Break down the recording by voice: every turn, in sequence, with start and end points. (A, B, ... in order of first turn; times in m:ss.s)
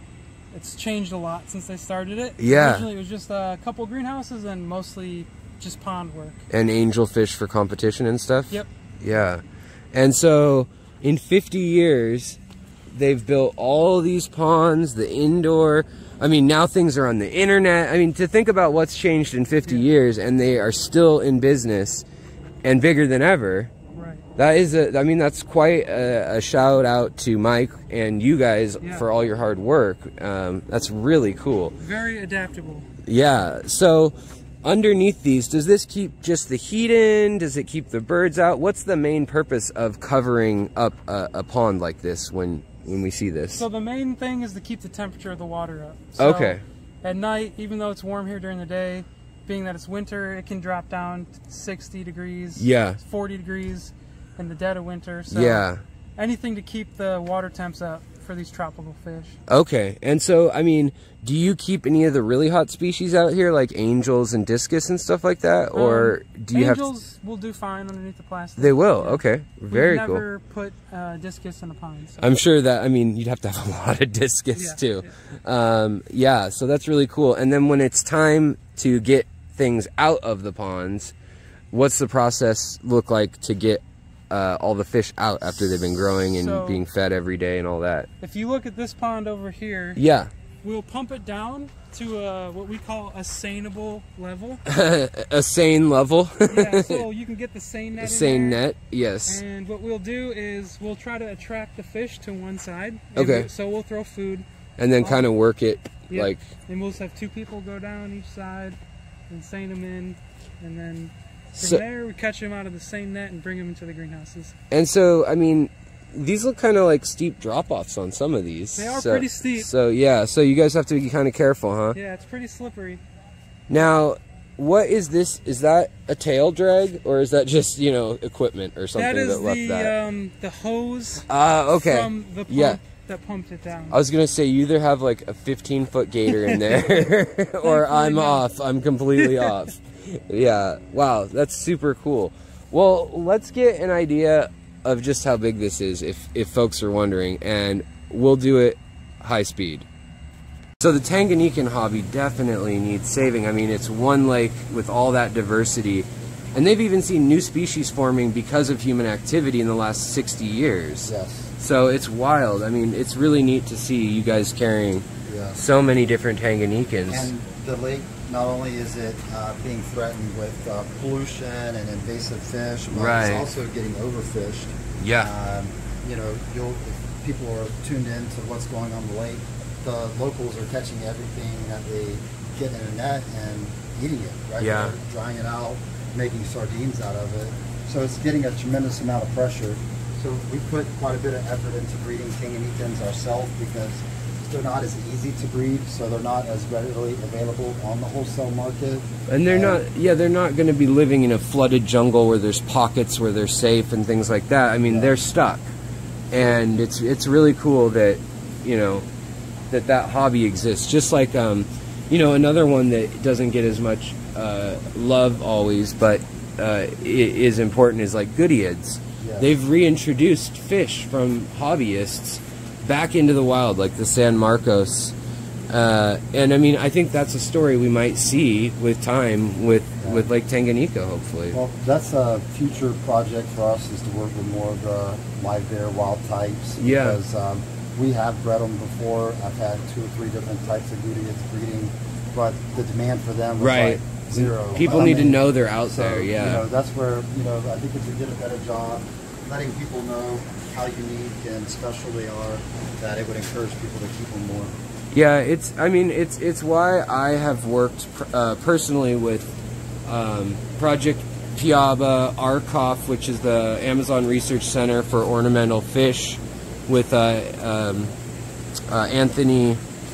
0:00.5-0:06.4 A
0:02.4-0:02.9 B
0:06.5-0:12.4 B
0:12.9-0:22.0 B
0:22.6-0:23.7 B
0:23.9-0:24.2 A
0:24.4-0:31.7 B
0:28.8-0:29.1 A
0:31.8-0:32.9 A
0:33.0-0:43.7 B
0:43.5-0:55.6 A
0:46.2-0:46.6 B
0:52.6-0:53.0 B
0:55.3-0:55.8 B
0:56.2-0:59.4 A
0:59.5-1:06.9 B
1:05.7-1:12.3 A
1:08.6-1:10.2 B
1:12.2-1:21.1 B
1:14.6-1:15.1 A
1:21.7-1:28.1 B
1:26.3-1:26.8 A
1:28.2-1:30.0 A
1:30.0-1:30.3 B
1:30.6-1:34.6 A
1:34.7-1:37.0 B
1:36.5-1:38.6 A
1:38.0-1:39.4 B
1:39.3-1:44.4 A
1:43.2-1:43.5 B
1:44.8-1:46.4 B
1:45.0-1:45.2 A
1:46.1-1:48.8 A
1:49.3-1:54.5 A
1:54.7-2:02.0 B
1:58.8-1:59.7 A
2:01.9-2:03.0 A
2:03.7-2:09.9 B
2:09.0-2:14.0 A
2:11.3-2:12.8 B
2:13.9-2:29.9 B
2:16.3-2:17.1 A
2:17.6-2:18.4 A
2:19.2-2:19.5 A
2:30.8-2:47.3 B
2:41.0-2:41.5 C
2:45.3-2:45.6 C
2:47.1-3:19.8 C
2:52.9-2:53.5 B
2:55.0-2:55.3 B
3:04.6-3:05.0 B
3:19.3-3:25.7 B
3:24.9-3:25.1 C
3:26.3-3:29.0 B
3:29.7-3:45.1 B
3:39.2-3:39.5 C
3:45.7-3:51.6 B
3:51.5-4:14.7 C
3:56.8-3:57.2 B
4:03.6-4:06.6 B
4:15.1-4:19.5 B
4:20.0-4:28.1 B
4:28.9-4:29.8 B